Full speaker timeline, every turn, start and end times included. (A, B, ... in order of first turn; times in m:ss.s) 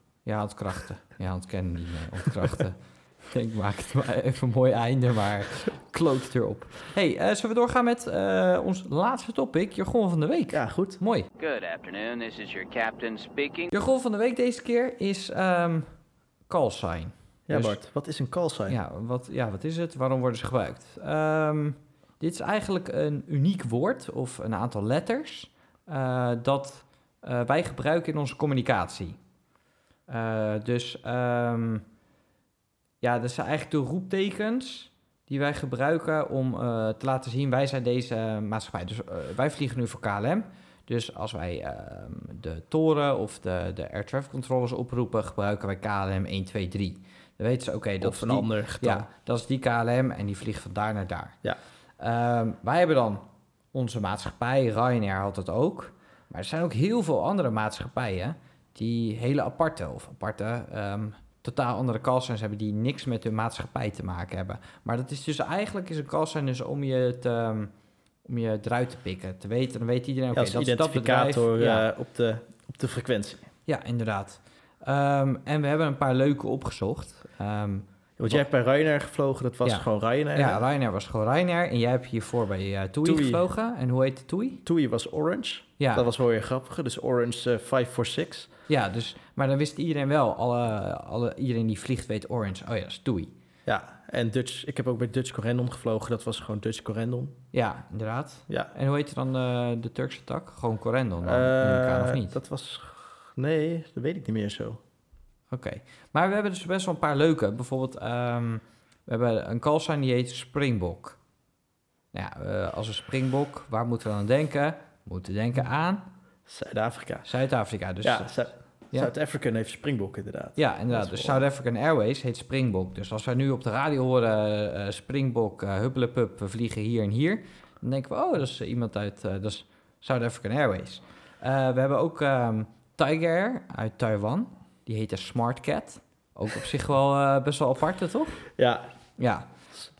0:00.2-0:11.3 A
0:10.5-0:11.0 B
0:11.4-0:13.7 C
0:13.7-0:17.8 A
0:17.5-0:18.8 B
0:18.7-0:29.2 A
0:30.1-0:31.8 A
0:33.0-0:51.4 A
0:48.0-0:49.1 B
0:52.0-1:07.7 A
1:08.2-1:11.8 A
1:10.3-1:13.5 B
1:13.6-1:18.4 A
1:18.2-1:20.6 B
1:19.6-1:24.6 A
1:23.0-1:23.4 B
1:24.6-1:28.5 B
1:25.8-1:26.1 A
1:28.7-1:33.3 A
1:33.6-1:37.4 B
1:37.5-1:42.4 A
1:41.2-1:44.8 B
1:45.5-1:51.2 A
1:52.1-1:56.1 A
1:56.5-1:57.3 B
1:57.2-1:59.1 A
1:58.0-2:01.4 B
2:00.6-2:18.5 A
2:18.6-2:18.9 B
2:19.2-2:19.7 A